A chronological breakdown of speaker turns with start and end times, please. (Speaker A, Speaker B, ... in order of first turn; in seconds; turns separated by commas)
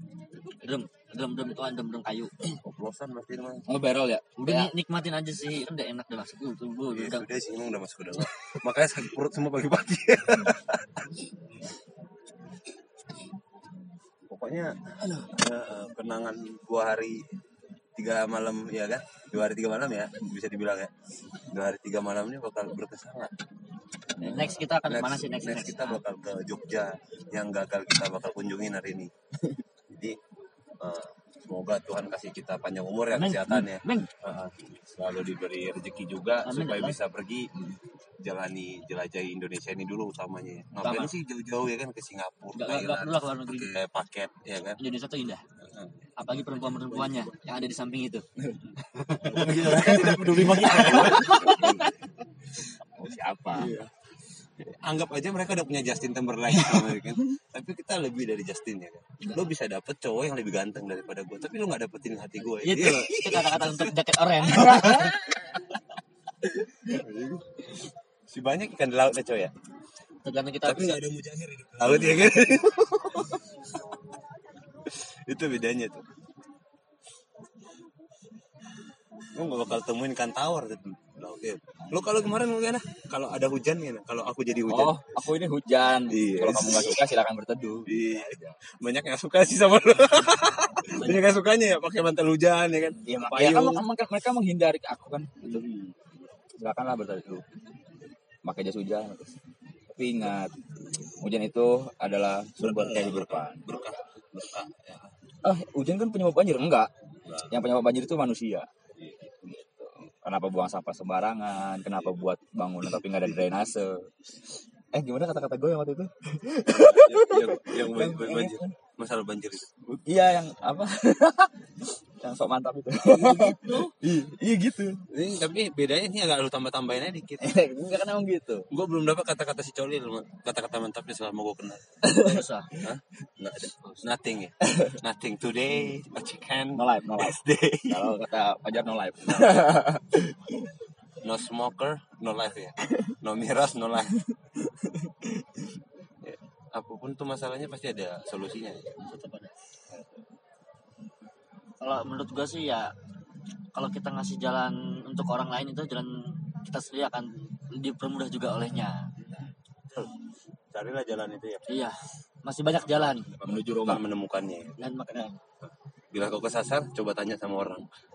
Speaker A: 0.6-2.3, Speaker B: 2.6-3.7, Speaker C: 3.7-4.7, Speaker A: 4.4-7.2, Speaker B: 6.9-11.1, Speaker B: 14.3-17.2, Speaker B: 18.0-20.9, Speaker B: 21.5-23.3, Speaker A: 24.2-26.0, Speaker C: 24.2-24.6, Speaker B: 24.3-29.1, Speaker B: 29.9-30.2, Speaker B: 30.8-37.7, Speaker A: 33.1-34.1, Speaker A: 36.4-37.0, Speaker B: 38.2-44.8, Speaker A: 40.8-41.1, Speaker A: 42.5-43.7, Speaker A: 44.8-45.4, Speaker B: 45.6-45.9, Speaker A: 46.2-48.2, Speaker B: 48.8-51.9, Speaker C: 49.2-51.9, Speaker A: 49.3-51.8, Speaker C: 52.8-53.8, Speaker B: 53.5-53.9, Speaker B: 54.6-63.9, Speaker C: 56.6-56.9, Speaker A: 62.6-65.2, Speaker B: 64.5-65.8, Speaker B: 66.4-67.8, Speaker B: 68.3-69.5, Speaker A: 70.2-71.0, Speaker B: 70.6-73.5, Speaker B: 74.9-76.0, Speaker B: 79.3-85.0, Speaker C: 84.7-88.5, Speaker B: 86.1-87.0, Speaker B: 87.9-93.8, Speaker C: 93.0-95.7, Speaker B: 95.4-95.9, Speaker C: 96.6-97.4, Speaker C: 98.4-99.3, Speaker C: 99.9-100.5, Speaker C: 101.2-103.8, Speaker B: 102.6-105.1, Speaker C: 105.4-106.9, Speaker C: 107.4-108.7, Speaker C: 109.4-114.1, Speaker C: 114.9-118.7, Speaker B: 116.7-119.7, Speaker C: 119.8-125.0, Speaker B: 123.2-123.7, Speaker B: 125.1-127.5, Speaker C: 127.4-128.7, Speaker B: 128.7-132.1, Speaker C: 132.0-132.4, Speaker A: 132.1-132.7, Speaker B: 132.7-138.1, Speaker C: 134.6-134.9, Speaker C: 136.7-140.7, Speaker B: 139.3-139.6, Speaker B: 141.2-144.2, Speaker C: 144.9-145.3, Speaker B: 146.2-148.9, Speaker A: 149.0-149.5, Speaker A: 151.8-152.9, Speaker A: 153.7-159.1, Speaker B: 159.2-160.1, Speaker B: 160.7-161.7, Speaker A: 161.7-163.3, Speaker B: 163.2-164.8, Speaker C: 163.4-164.0, Speaker A: 164.8-165.4, Speaker B: 166.1-168.0